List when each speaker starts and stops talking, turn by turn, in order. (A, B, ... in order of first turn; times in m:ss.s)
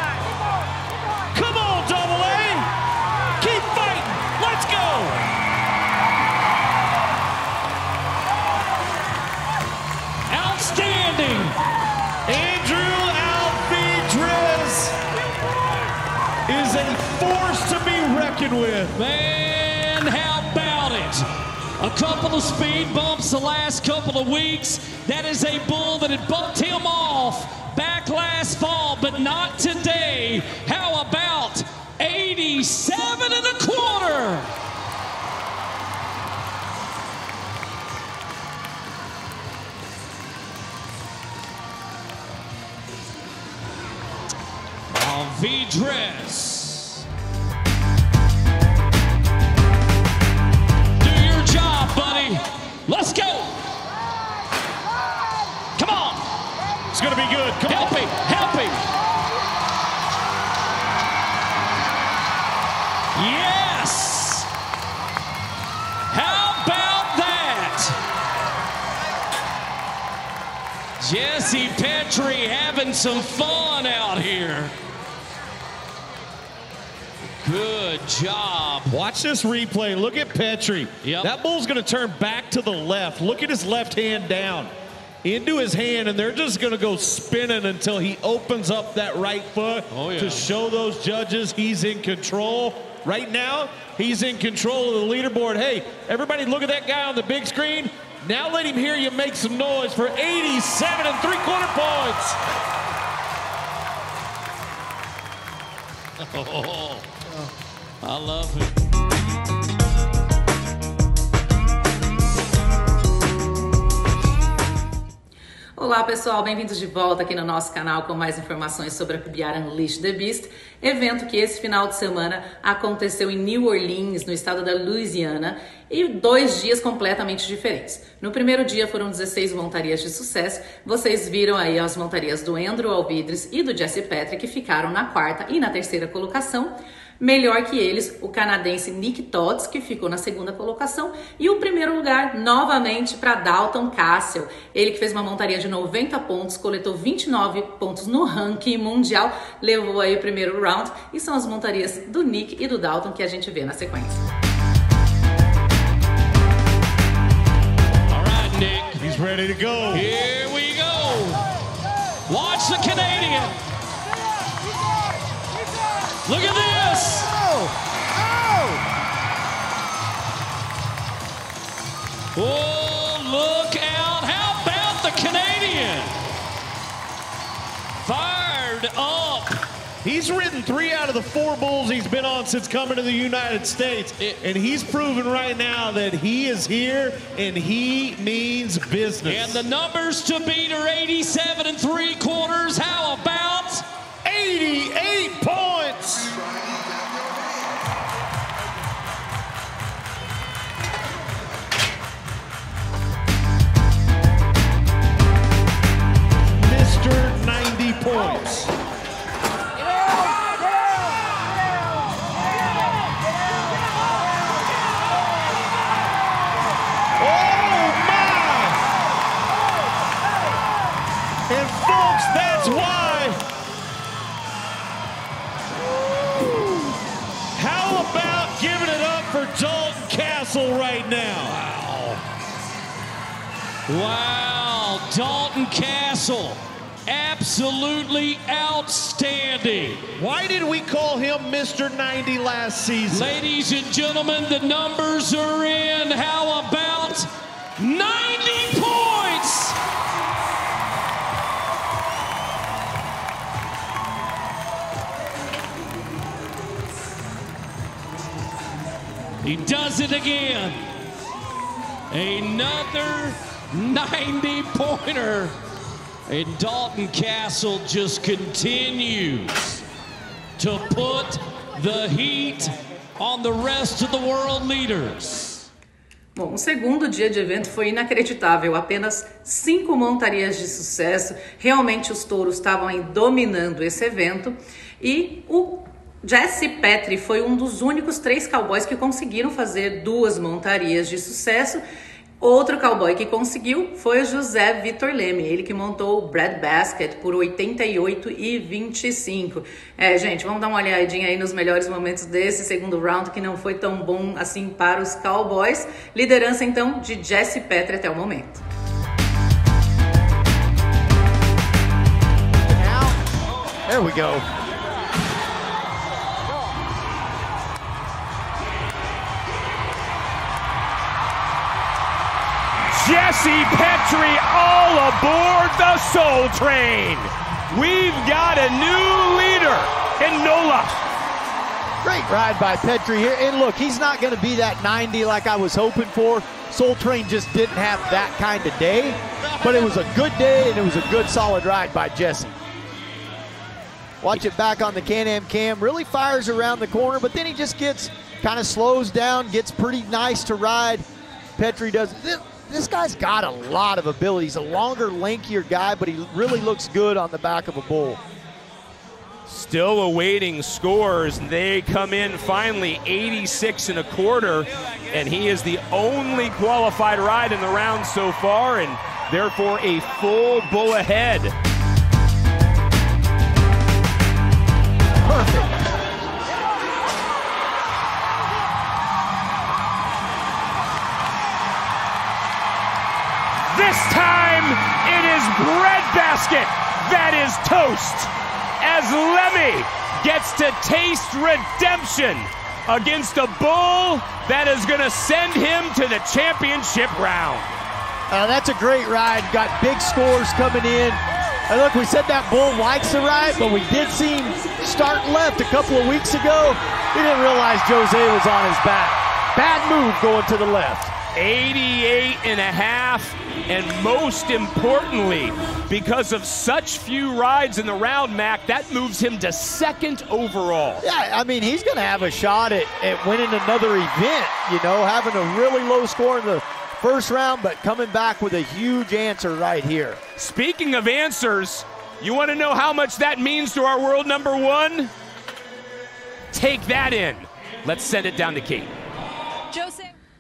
0:01.3-0:02.7 A
0:03.4-0:05.3 A
0:10.3-0:11.6 B
0:12.2-0:15.0 A
0:16.5-0:19.0 A
0:18.9-0:21.2 B
0:21.8-0:34.5 B
0:44.9-0:47.0 B
0:51.0-0:53.6 B
0:55.8-0:56.2 B
0:56.9-0:57.9 A
0:57.6-0:58.9 B
1:03.2-1:04.5 B
1:06.1-1:08.0 B
1:11.0-1:14.7 B
1:17.4-1:19.0 B
1:18.9-1:24.7 A
1:21.0-1:21.3 B
1:25.2-1:42.4 A
1:29.9-1:30.5 B
1:46.2-1:47.0 B
1:48.0-1:48.7 B
1:55.8-2:34.2 C
2:38.0-2:39.0 B
2:39.0-2:40.0 A
2:39.9-2:41.5 B
2:42.3-2:43.6 B
2:46.2-2:47.5 B
2:52.3-2:56.2 B
2:58.0-2:59.6 B
3:00.0-3:01.9 D
3:00.1-3:09.6 A
3:03.3-3:03.9 D
3:04.6-3:05.3 D
3:06.5-3:07.4 D
3:08.1-3:08.8 D
3:09.2-3:13.8 B
3:14.2-3:16.3 A
3:14.8-3:16.0 D
3:26.5-3:28.7 A
3:37.2-3:38.8 A
3:41.5-3:43.4 A
3:47.5-3:51.6 A
3:51.5-3:52.2 B
3:53.9-4:00.1 B
4:00.2-4:03.3 A
4:02.2-4:03.0 D
4:03.1-4:09.8 B
4:19.4-4:20.8 B
4:22.1-4:25.5 B
4:26.3-4:29.8 B
4:30.6-4:35.7 B
4:36.4-4:51.8 C
4:52.4-5:08.6 C
5:12.7-5:13.2 E
5:13.9-5:14.4 E
5:22.9-5:31.0 D
5:32.0-5:42.6 E
5:44.2-5:51.0 E
5:51.6-5:58.2 E
5:59.5-6:11.6 D
6:15.2-6:15.7 E
6:23.7-6:37.8 D
6:38.3-6:51.1 E
6:51.3-7:01.0 D
7:01.0-7:10.2 E
7:10.4-7:15.1 D
7:16.5-7:18.9 D